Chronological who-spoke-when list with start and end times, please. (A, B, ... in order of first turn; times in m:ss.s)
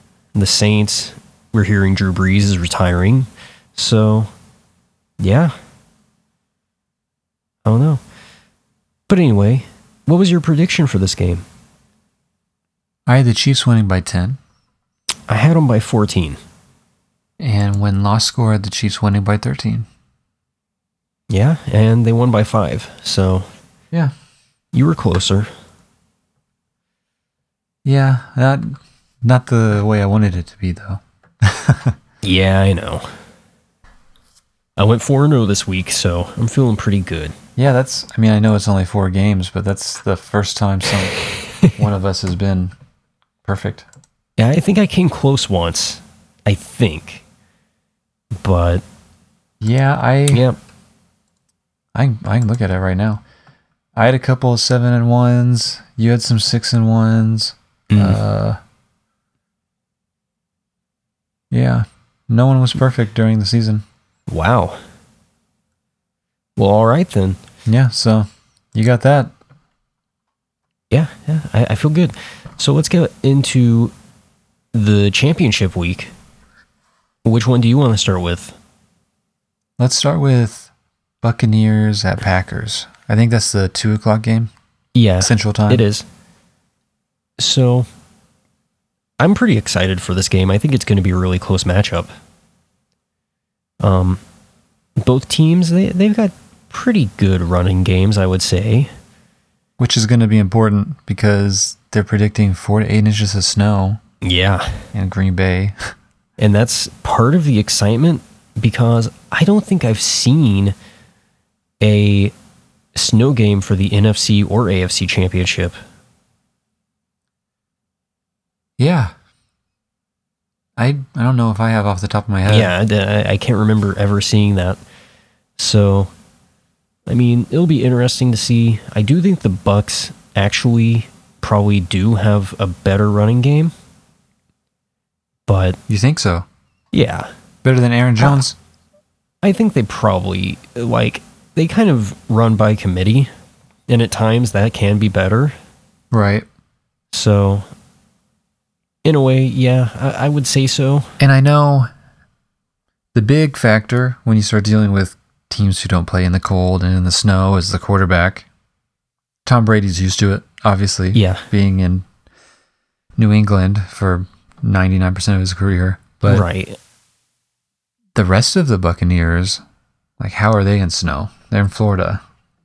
0:00.4-0:04.3 A
0:05.2-0:05.5 A
0:07.6-0:08.0 A
0:09.1-0:11.4 A
0:13.1-0:14.4 B
0:15.3-0:16.4 A
0:17.4-0:19.9 B
0:21.3-0:23.5 A
0:24.7-0:25.5 A
0:27.8-0:32.0 B
0:32.2-0:33.2 A
0:34.8-0:37.4 A
0:37.6-0:42.7 B
0:43.4-0:43.9 B
0:44.4-0:47.2 A
0:48.4-0:48.8 A
0:49.6-0:50.5 B
0:50.3-0:50.6 A
0:52.0-0:53.2 B
0:54.0-0:58.6 B
0:57.9-0:58.2 A
1:01.5-1:03.8 B
1:04.3-1:04.8 A
1:06.6-1:07.4 A
1:07.7-1:09.3 B
1:10.9-1:13.9 A
1:14.7-1:16.1 A
1:17.2-1:18.6 A
1:19.8-1:20.7 B
1:21.2-1:24.5 B
1:25.0-1:26.0 A
1:25.2-1:25.8 B
1:27.4-1:27.9 A
1:29.2-1:32.1 A
1:33.8-1:34.2 A
1:35.0-1:38.9 A
1:39.8-1:44.0 B
1:44.2-1:44.9 A
1:44.9-1:45.8 B
1:46.4-1:50.8 A
1:51.8-1:52.3 A
1:53.0-1:55.8 A
1:58.8-1:59.1 B
2:00.8-2:02.7 B
2:02.5-2:04.8 A
2:05.6-2:06.1 A
2:07.1-2:13.7 A
2:15.5-2:15.8 A
2:15.9-2:16.5 B
2:16.9-2:17.3 A
2:17.6-2:18.6 B
2:19.4-2:23.3 A
2:23.9-2:25.6 A
2:26.1-2:26.5 B
2:27.1-2:27.7 A
2:29.0-2:31.2 A
2:31.2-2:31.9 B
2:33.1-2:38.5 B
2:39.5-2:42.1 B
2:41.1-2:41.5 A
2:43.2-2:46.5 B
2:46.2-2:46.8 A
2:48.2-2:49.6 B
2:50.2-2:52.2 B